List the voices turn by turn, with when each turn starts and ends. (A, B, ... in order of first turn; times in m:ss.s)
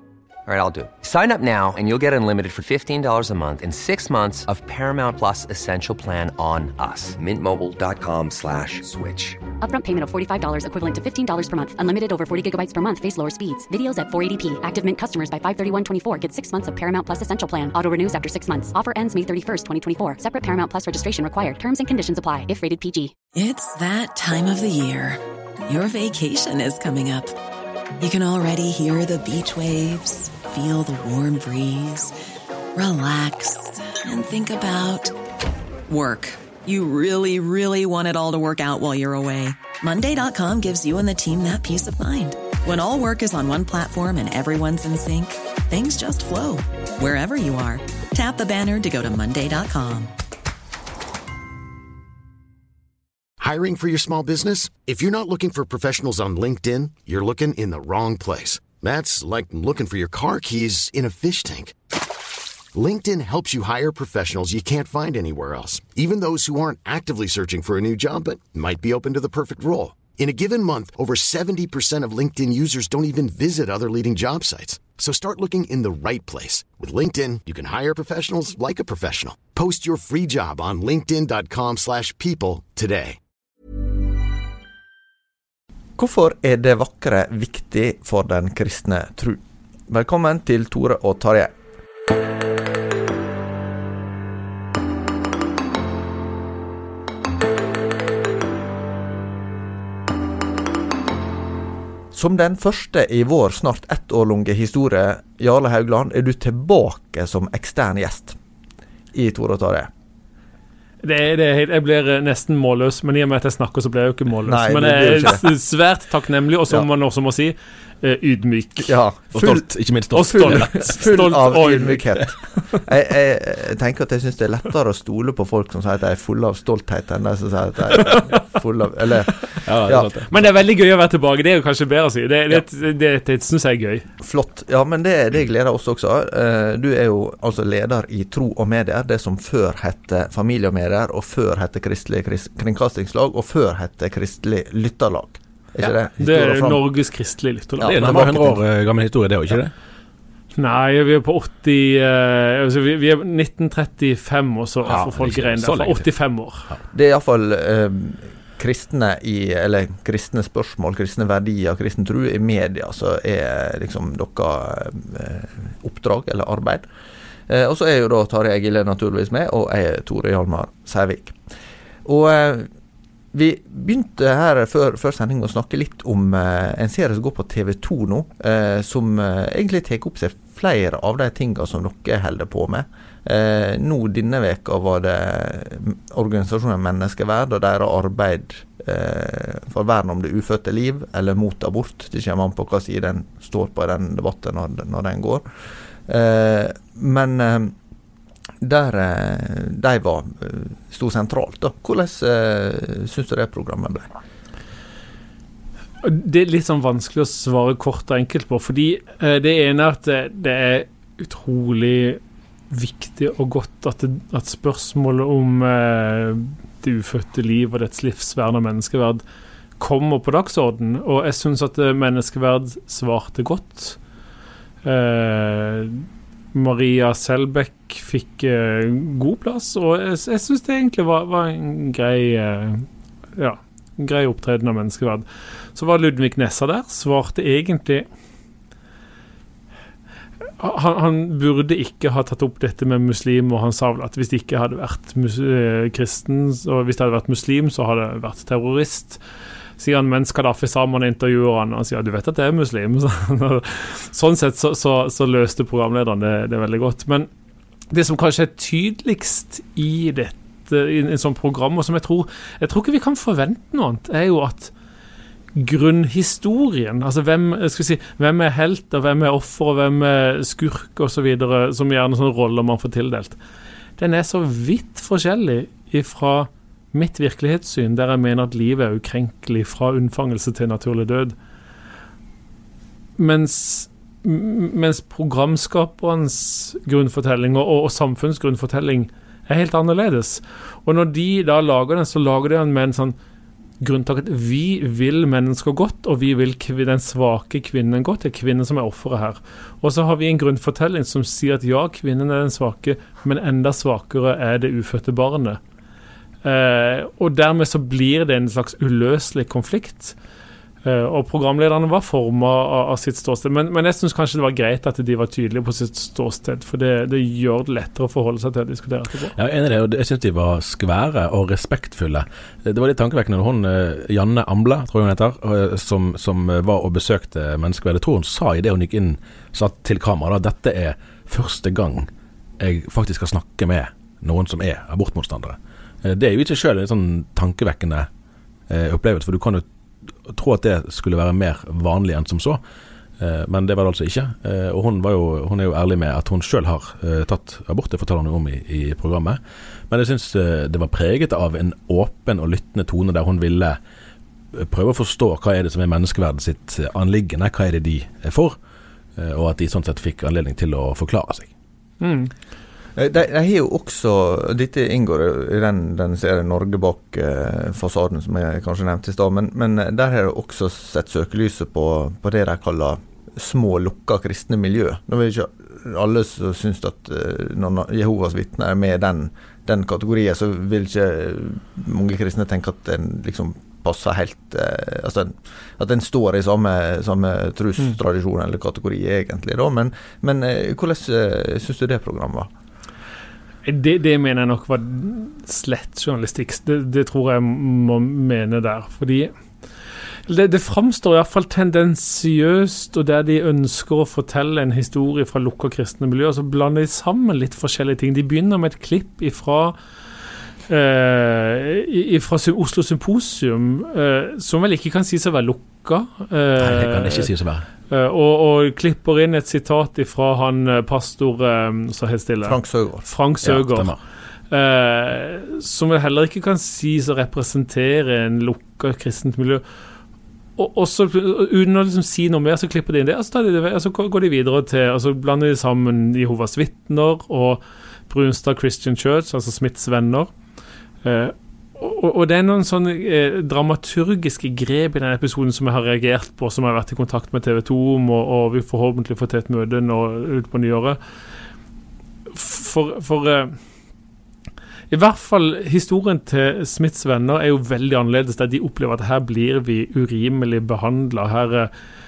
0:00.5-0:09.4 A
0:09.6-0:23.2 B
0:23.3-0:27.4 C
0:28.0-0:32.1 C
0:32.8-0:35.2 C
0:35.9-0:50.1 C
0:53.4-1:01.8 D
1:02.7-1:23.2 D
1:26.0-1:31.5 E
1:42.1-1:48.4 E
1:49.1-1:49.9 E
1:51.0-1:59.0 F
1:54.4-1:55.5 E
1:58.8-1:59.7 E
1:59.3-2:01.0 G
2:00.1-2:02.2 F
2:00.2-2:10.1 E
2:09.6-2:10.3 G
2:10.3-2:14.1 F
2:14.2-2:26.8 E
2:25.8-2:28.3 F
2:27.8-2:28.6 E
2:27.8-2:29.7 G
2:30.6-2:36.7 F
2:34.8-2:36.0 G
2:36.9-2:46.9 E
2:47.5-2:51.4 E
2:52.0-2:52.7 E
2:53.3-3:15.5 E
3:16.0-3:17.7 E
3:18.6-3:24.1 E
3:26.0-3:39.2 F
3:39.8-3:44.0 F
3:44.8-3:58.0 F
4:00.6-4:09.2 F
4:09.8-4:17.3 F
4:17.9-4:24.7 F
4:25.6-4:33.4 F
4:34.0-4:41.4 F
4:43.2-4:53.2 F
4:53.8-5:05.6 F
5:06.4-5:10.2 F
5:10.8-5:19.3 F
5:19.4-5:32.1 G
5:32.6-5:38.1 G
5:38.7-5:39.6 G
5:40.3-5:42.6 G
5:43.2-5:53.8 G
5:54.5-5:58.6 G
5:59.2-6:01.5 G
6:02.0-6:02.3 F
6:03.0-6:32.5 E
6:33.6-6:39.3 F
6:40.3-6:49.8 F
6:50.7-6:57.3 F
6:56.6-6:57.7 G
6:57.9-7:03.9 F
7:02.4-7:03.0 E
7:03.4-7:04.0 G
7:04.5-7:09.6 F
7:10.6-7:20.3 F
7:21.0-7:31.0 F
7:32.3-7:33.6 F
7:34.9-7:41.7 F